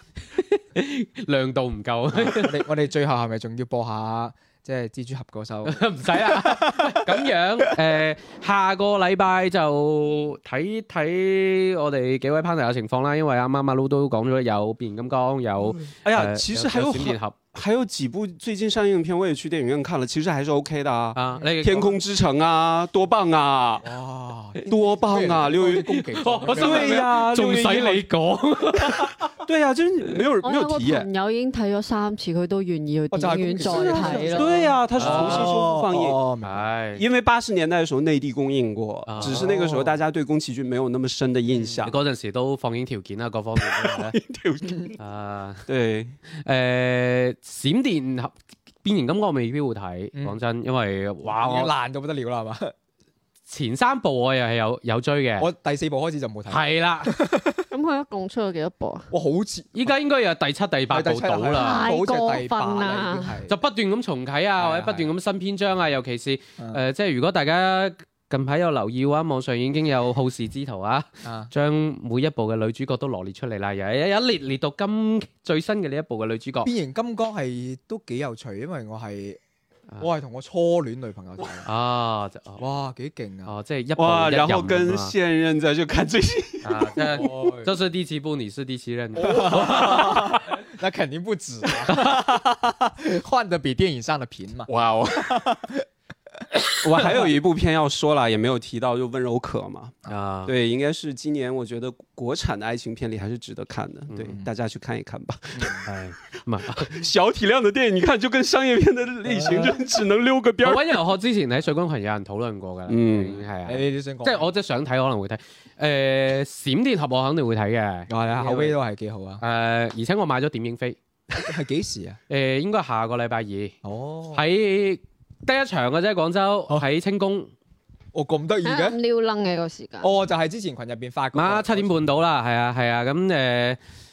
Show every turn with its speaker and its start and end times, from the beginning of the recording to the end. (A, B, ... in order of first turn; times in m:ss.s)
0:00.3-0:02.6 A
0:02.2-0:07.7 B
0:05.6-0:17.3 A
0:15.8-0:23.9 C
0:21.1-0:22.0 A
0:23.8-0:27.1 B
0:24.6-0:28.0 C
0:25.9-0:29.3 A
0:29.3-0:31.1 C
0:30.4-0:34.6 D
0:33.1-0:36.6 B
0:33.7-0:36.2 C
0:35.0-0:35.5 A
0:36.4-0:37.0 A
0:37.0-0:41.9 C
0:39.1-0:39.6 A
0:39.2-0:39.8 B
0:41.8-0:44.2 A
0:43.6-0:45.0 C
0:45.0-0:45.6 A
0:45.7-0:46.2 C
0:46.3-0:51.7 A
0:51.2-0:52.7 B
0:53.5-0:55.5 A
0:55.4-0:57.6 B
0:56.5-0:57.1 A
0:57.7-0:59.1 D
0:59.1-0:59.9 B
0:59.7-1:01.8 A
1:00.9-1:03.5 B
1:01.5-1:03.4 D
1:03.5-1:16.7 A
1:04.6-1:05.1 B
1:11.2-1:11.5 B
1:16.6-1:19.4 B
1:20.0-1:21.7 B
1:21.6-1:22.6 A
1:22.6-1:23.5 B
1:23.4-1:25.1 A
1:24.0-1:26.9 C
1:26.6-1:30.1 A
1:27.2-1:27.7 B
1:29.2-1:35.8 B
1:29.6-1:30.3 C
1:34.7-1:35.3 C
1:36.7-1:37.3 B
1:36.8-1:45.8 C
1:40.1-1:40.5 A
1:44.1-1:44.3 A
1:45.5-1:45.8 B
1:45.8-1:46.8 A
1:46.7-1:51.0 C
1:49.3-1:49.7 B
1:50.6-1:58.8 A
1:52.9-1:53.4 C
1:53.6-1:54.4 B
1:58.1-1:59.4 B
1:59.4-2:01.0 A
2:01.3-2:02.2 B
2:02.3-2:03.8 A
2:03.8-2:04.4 B
2:04.3-2:07.5 A
2:08.1-2:09.0 B
2:08.6-2:10.1 D
2:10.0-2:11.9 B
2:11.3-2:13.8 A